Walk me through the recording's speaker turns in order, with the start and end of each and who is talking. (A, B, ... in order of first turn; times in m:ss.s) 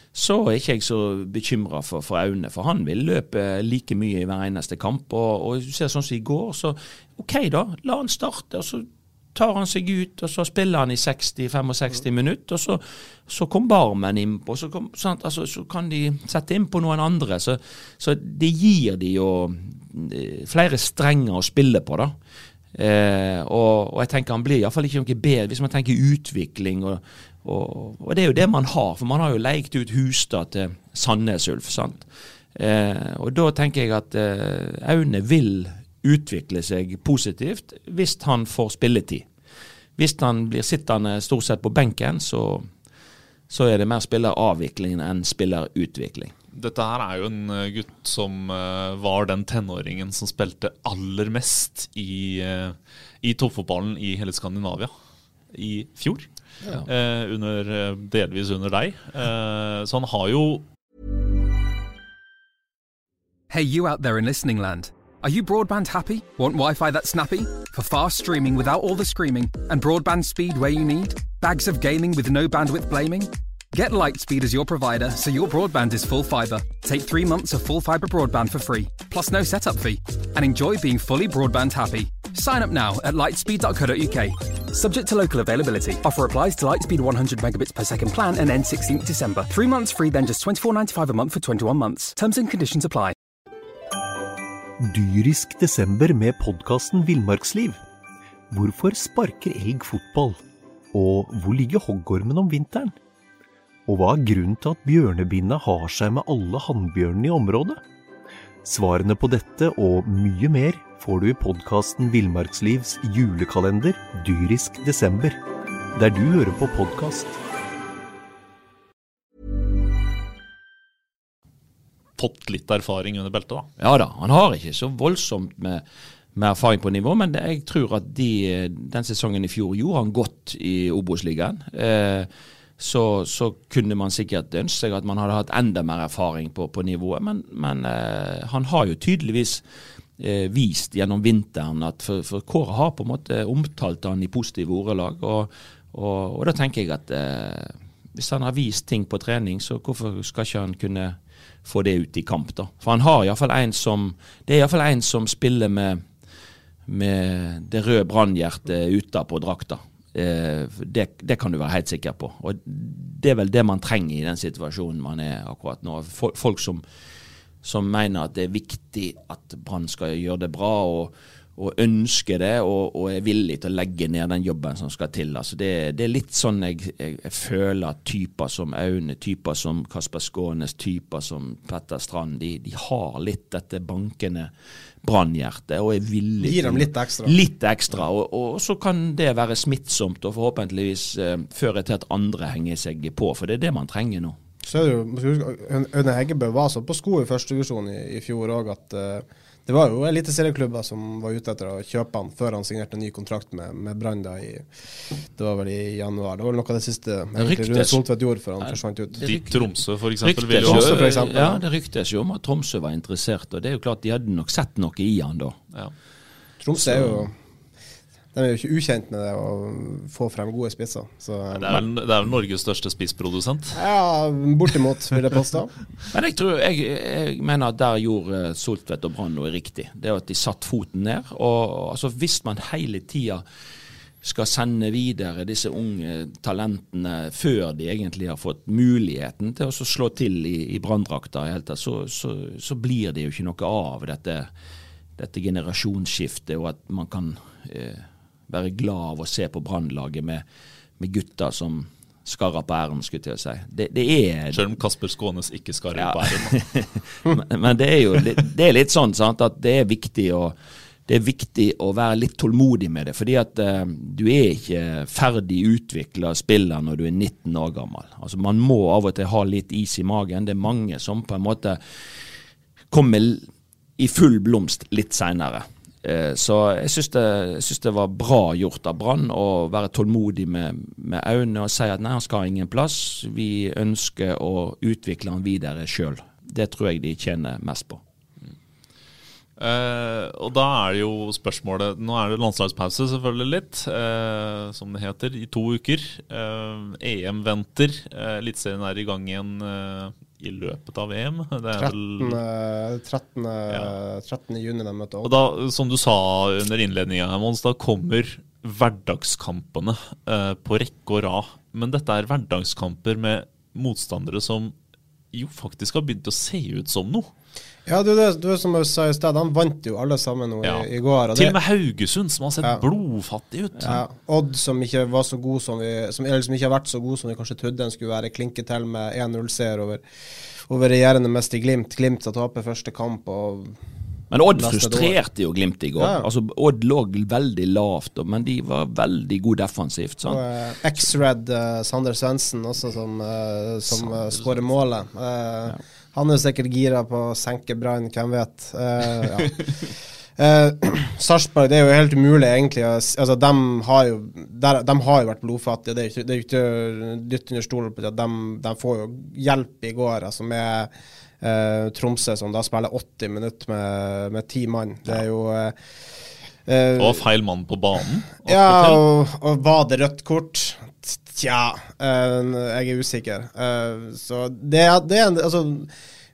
0:00.1-0:22.1 A
0:22.7-0:39.2 A
0:40.0-0:42.7 A
0:43.5-0:46.3 A
0:46.5-0:54.9 B
0:55.5-0:56.3 B
0:56.8-1:00.6 B
1:03.5-1:33.1 C
1:34.8-1:37.8 D
1:38.5-1:40.4 D
1:40.9-1:43.0 D
1:43.9-1:47.8 D
1:48.6-1:55.4 D
1:55.9-1:57.4 D
2:02.2-2:03.7 B
2:03.8-2:05.8 A
2:06.3-2:19.6 A
2:20.2-2:36.0 A
2:36.8-2:46.8 A
2:47.6-3:04.5 A
3:05.0-3:14.4 A
3:06.4-3:07.3 E
3:14.6-3:24.6 E
3:25.4-3:29.2 E
3:27.4-3:28.0 A
3:28.6-3:29.7 A
3:29.2-3:31.1 B
3:30.2-3:35.6 A
3:30.6-3:31.6 E
3:36.6-3:37.3 E
3:36.8-3:37.2 A
3:38.3-3:41.8 E
3:41.5-3:43.8 B
3:43.8-3:45.7 E
3:46.1-3:53.4 A
3:54.2-4:04.5 A
4:05.2-4:10.4 A
4:11.0-4:14.6 A
4:14.5-4:16.6 B
4:16.0-4:20.5 A
4:21.1-4:31.8 A
4:32.9-4:33.4 A
4:34.0-4:48.0 A
4:49.6-5:02.4 B
5:01.8-5:05.3 E
5:03.7-5:03.9 B
5:05.2-5:14.7 B
5:15.3-5:17.3 B
5:17.8-5:21.6 E
5:20.6-5:24.0 B
5:23.8-5:30.0 E
5:30.7-5:33.7 E
5:34.3-5:40.4 A
5:34.5-5:35.2 E
5:36.0-5:36.3 E
5:40.2-5:49.8 E
5:50.4-6:00.9 E
6:01.4-6:05.7 E
6:06.6-6:07.2 E
6:07.0-6:09.0 B
6:08.5-6:15.9 E